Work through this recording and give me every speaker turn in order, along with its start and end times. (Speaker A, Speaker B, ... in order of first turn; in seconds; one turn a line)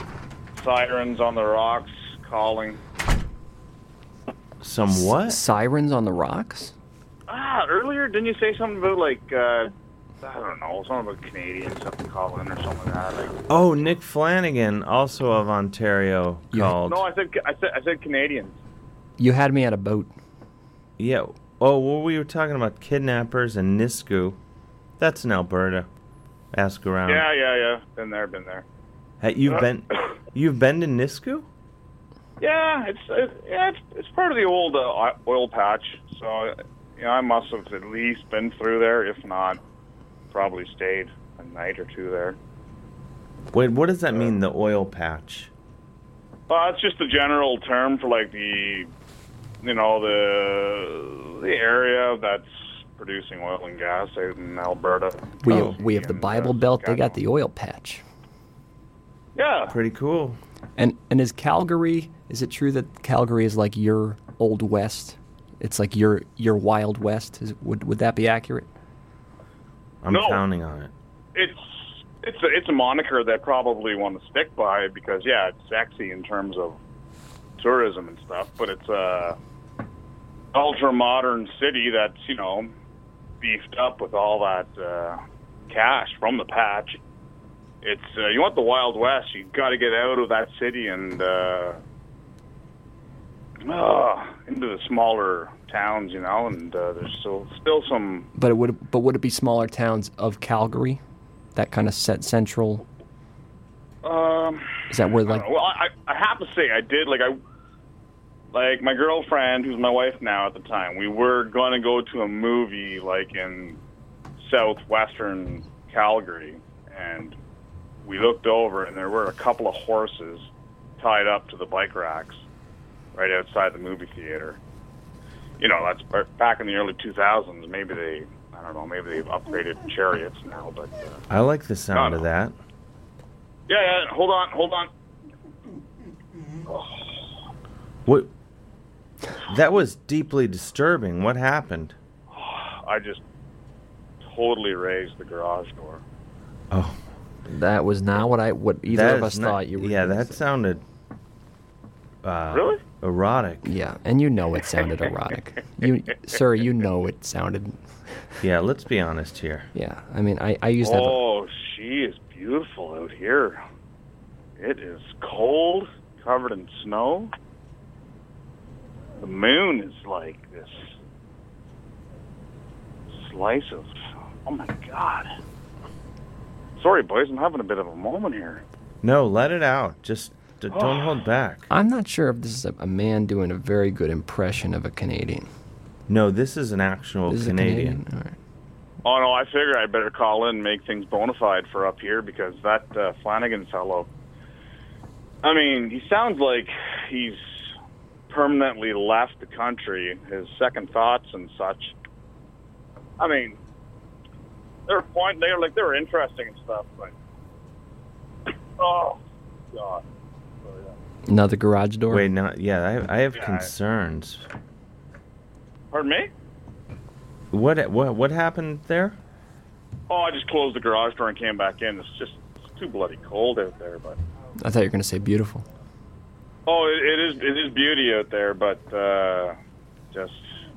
Speaker A: 0.6-2.8
Speaker B: 4.6-5.4
Speaker C: 4.9-6.7
Speaker A: 7.3-13.3
Speaker B: 13.5-17.0
Speaker C: 16.5-16.8
Speaker A: 16.9-18.6
Speaker C: 19.2-20.1
Speaker B: 21.0-24.4
Speaker B: 25.0-25.9
Speaker B: 26.5-27.3
Speaker A: 27.1-28.6
Speaker B: 29.2-31.5
Speaker A: 32.4-39.6
Speaker A: 40.3-42.4
Speaker B: 43.5-45.5
Speaker A: 46.5-48.9
Speaker A: 49.6-57.2
Speaker C: 55.4-58.0
Speaker B: 55.5-55.8
Speaker A: 59.4-59.8
Speaker B: 59.7-60.4
Speaker C: 60.8-68.7
Speaker B: 70.0-70.9
Speaker A: 70.1-70.4
Speaker A: 71.3-76.8
Speaker A: 77.6-79.4
Speaker A: 80.5-82.7
Speaker A: 83.4-87.0
Speaker A: 87.8-91.8
Speaker A: 93.7-98.3
Speaker C: 98.3-101.0
Speaker C: 101.5-102.8
Speaker A: 104.0-107.4
Speaker C: 104.9-105.5
Speaker A: 108.5-113.8
Speaker A: 114.4-117.4
Speaker A: 118.0-120.5
Speaker A: 121.0-122.4
Speaker A: 123.1-124.6
Speaker A: 125.6-131.2
Speaker B: 131.3-132.6
Speaker A: 131.9-132.2
Speaker A: 133.7-134.9
Speaker A: 136.7-137.1
Speaker B: 139.5-142.0
Speaker A: 142.3-143.2
Speaker A: 144.2-146.0
Speaker B: 146.7-147.0
Speaker C: 147.5-150.4
Speaker B: 148.9-150.8
Speaker B: 152.2-153.7
Speaker A: 152.5-152.8
Speaker C: 153.6-158.2
Speaker B: 158.4-159.7
Speaker C: 159.7-161.2
Speaker A: 160.8-163.6
Speaker A: 164.6-167.3
Speaker A: 169.2-171.0
Speaker A: 173.1-173.9
Speaker A: 174.4-175.3
Speaker A: 176.8-178.6
Speaker B: 179.0-181.7
Speaker A: 180.7-181.2
Speaker C: 181.7-185.5
Speaker B: 186.1-188.0
Speaker C: 187.3-188.3
Speaker A: 189.0-194.1
Speaker A: 195.4-197.7
Speaker A: 198.3-201.9
Speaker A: 203.2-203.6
Speaker A: 204.9-207.1
Speaker A: 208.8-209.2
Speaker A: 209.7-210.0
Speaker A: 210.6-210.9
Speaker C: 211.3-212.3
Speaker B: 212.1-214.5
Speaker A: 213.3-213.7
Speaker A: 215.9-216.3
Speaker B: 217.5-219.2
Speaker A: 220.1-224.2
Speaker C: 224.6-225.7
Speaker A: 226.7-229.6
Speaker A: 230.1-230.5